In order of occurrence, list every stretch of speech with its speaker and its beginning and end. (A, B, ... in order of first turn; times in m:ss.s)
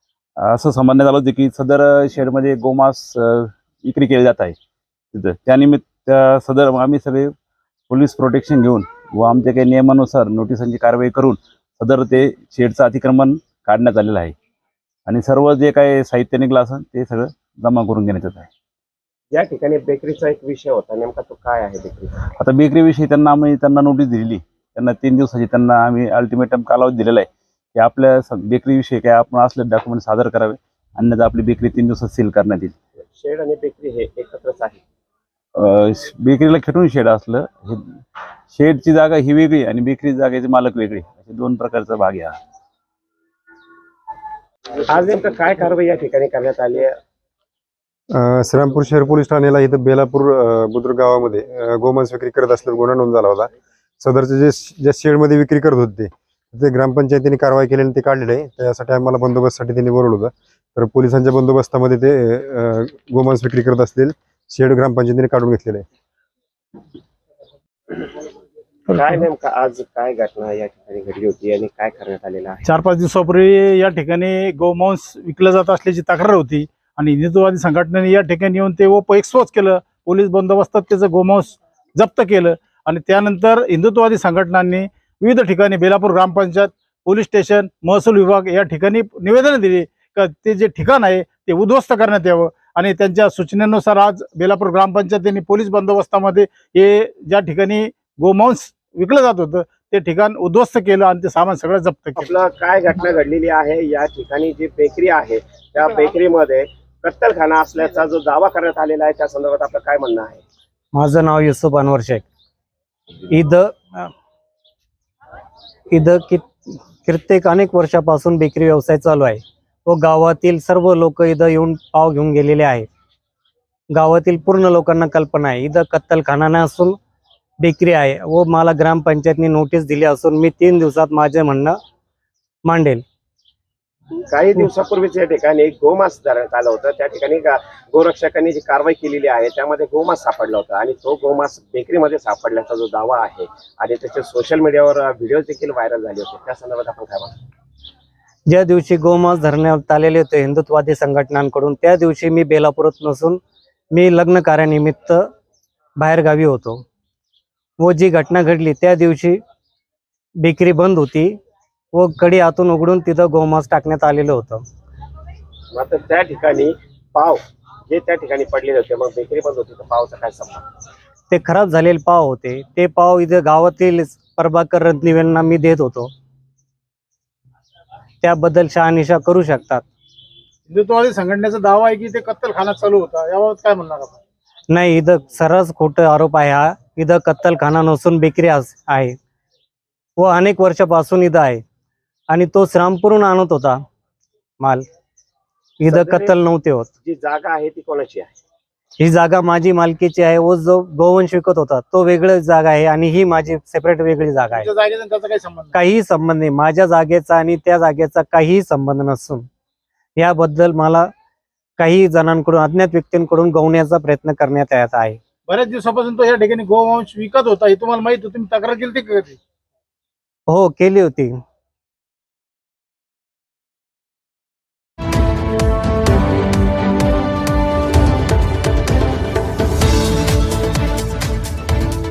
0:00.4-0:04.6 A
0:05.1-0:07.3 A
0:07.9-0:14.3 A
0:15.0-0:18.5 A
0:19.3-0:22.2 B
0:22.4-0:32.7 A
0:33.1-0:34.8 B
0:35.6-0:37.8 A
0:38.5-0:42.4 A
0:44.9-0:46.9 B
0:48.2-0:53.5 C
0:54.0-1:05.8 C
1:08.9-1:12.6 B
1:12.6-1:42.3 D
1:42.2-1:50.4 B
1:51.0-1:52.2 E
1:53.3-1:54.1 E
1:55.9-1:56.4 E
1:57.0-2:02.8 E
2:03.9-2:07.0 E
2:07.6-2:11.8 E
2:12.7-2:13.0 E
2:14.2-2:27.3 B
2:28.5-2:33.4 E
2:33.9-2:35.3 E
2:36.0-2:36.8 E
2:37.8-2:39.4 E
2:40.4-2:41.3 E
2:42.0-2:44.6 E
2:45.7-2:50.6 B
2:51.3-2:56.1 E
2:58.2-2:59.8 E
3:00.7-3:04.2 D
3:04.7-3:09.2 E
3:10.2-3:11.6 E
3:12.3-3:13.8 E
3:15.8-3:16.9 E
3:15.9-3:16.4 B
3:17.0-3:18.4 B
3:19.0-3:24.7 E
3:24.3-3:25.8 D
3:25.7-3:29.5 E
3:30.2-3:31.1 E
3:31.8-3:35.2 E
3:35.5-3:39.4 D
3:40.5-3:41.3 E